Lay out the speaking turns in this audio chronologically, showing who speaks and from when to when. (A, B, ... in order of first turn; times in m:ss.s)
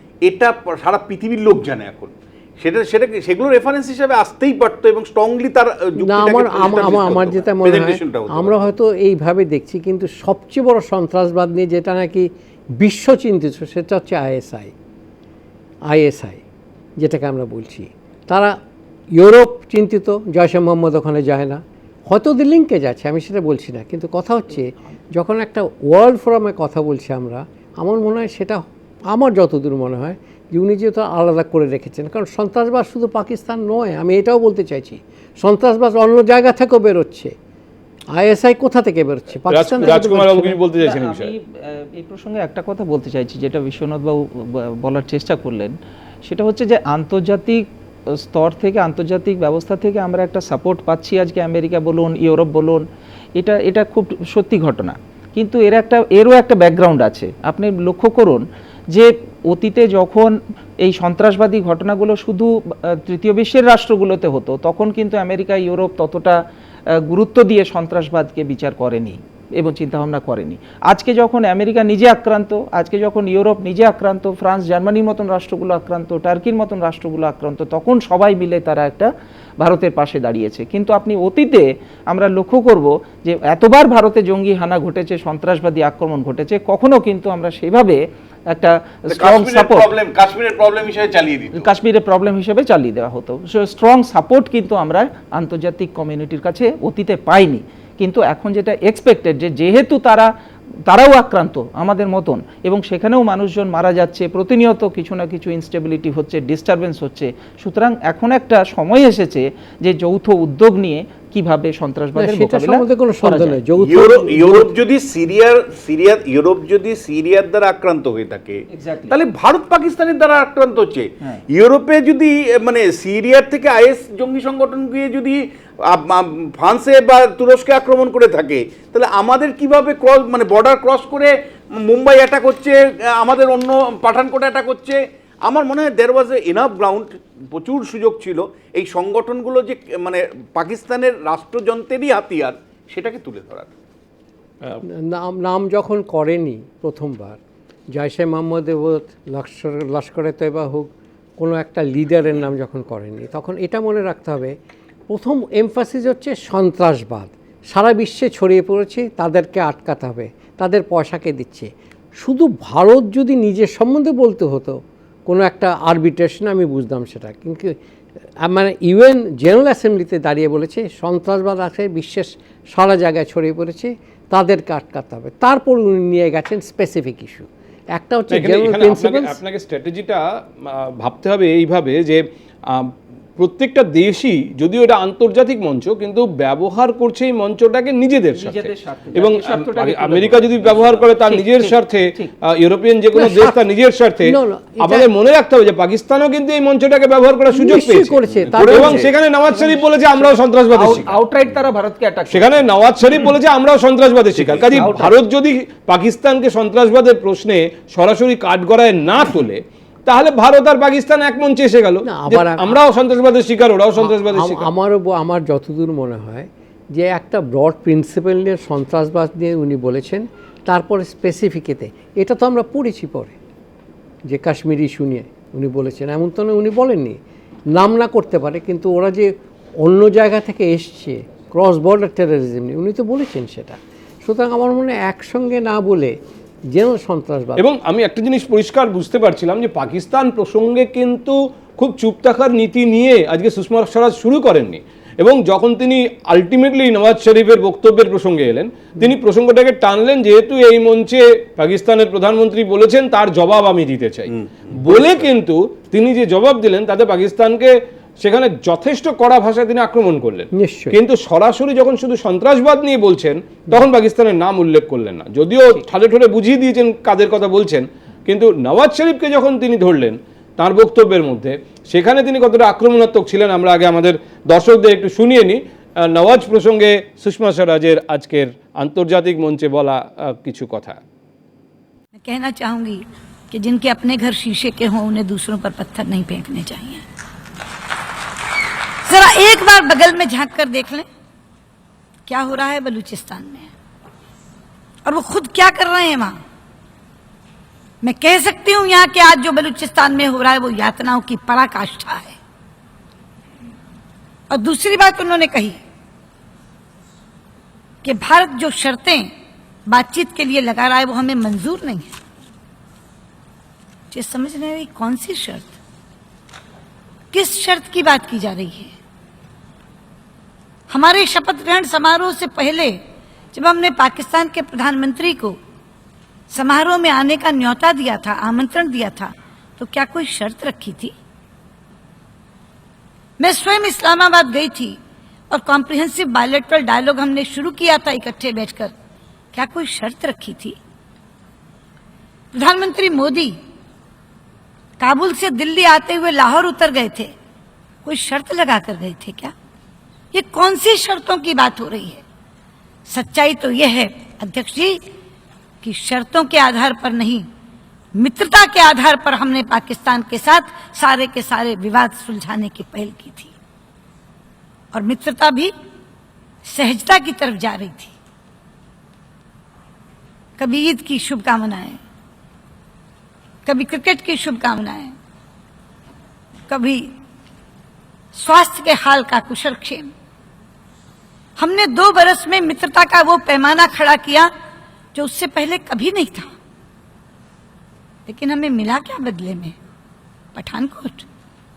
0:00.2-0:08.6 A
0:06.0-0:14.7 B
0:15.9-0:16.4 B
0:17.0-0:18.5 B
0:19.1-0:37.3 B
0:38.1-0:40.6 B
0:39.5-0:41.3 C
0:40.8-0:52.8 D
0:53.4-1:06.4 D
1:07.0-1:29.9 D
1:29.1-1:31.7 A
1:31.5-1:40.3 D
1:40.9-1:53.6 D
1:52.2-1:54.7 B
1:53.8-2:23.7 A
1:58.7-1:59.2 D
2:24.8-2:27.4 B
2:27.9-2:34.6 B
2:35.1-2:47.8 B
2:48.4-2:59.4 B
2:58.3-3:21.2 C
3:08.3-3:12.3 D
3:13.1-3:13.6 B
3:14.2-3:15.1 B
3:17.5-3:19.1 B
3:18.3-3:19.0 A
3:19.5-3:22.6 D
3:22.3-3:34.7 C
3:24.4-3:24.9 A
3:24.7-3:25.1 D
3:32.0-3:32.8 B
3:34.0-3:43.3 B
3:44.3-3:47.2 B
3:47.7-3:56.2 B
3:56.7-3:57.6 B
3:57.6-4:41.0 C
4:14.4-4:15.2 A
4:20.5-4:21.0 B
4:42.2-4:47.0 E
4:49.0-4:51.0 E
4:52.3-4:53.7 E
4:55.0-4:56.4 E
4:58.0-5:02.4 E
5:04.5-5:05.8 E
5:08.0-5:09.3 E
5:09.9-5:12.1 E
5:14.1-5:15.7 E
5:17.3-5:18.9 E
5:20.9-5:23.0 E
5:23.5-5:25.6 E
5:26.5-5:31.1 E
5:33.4-5:35.0 E
5:35.5-5:38.9 E
5:39.5-5:40.8 E
5:42.5-5:43.6 E
5:45.0-5:47.3 E
5:48.0-5:49.5 E
5:50.3-5:52.2 E
5:53.1-5:55.0 E
5:55.8-5:57.4 E
5:58.1-6:03.5 E
6:04.9-6:05.7 E
6:06.6-6:08.1 E
6:10.6-6:12.0 E
6:13.6-6:15.1 E
6:16.7-6:17.1 E
6:18.3-6:20.1 E
6:21.6-6:24.5 E
6:25.1-6:26.5 E
6:28.3-6:29.7 E
6:30.5-6:31.2 E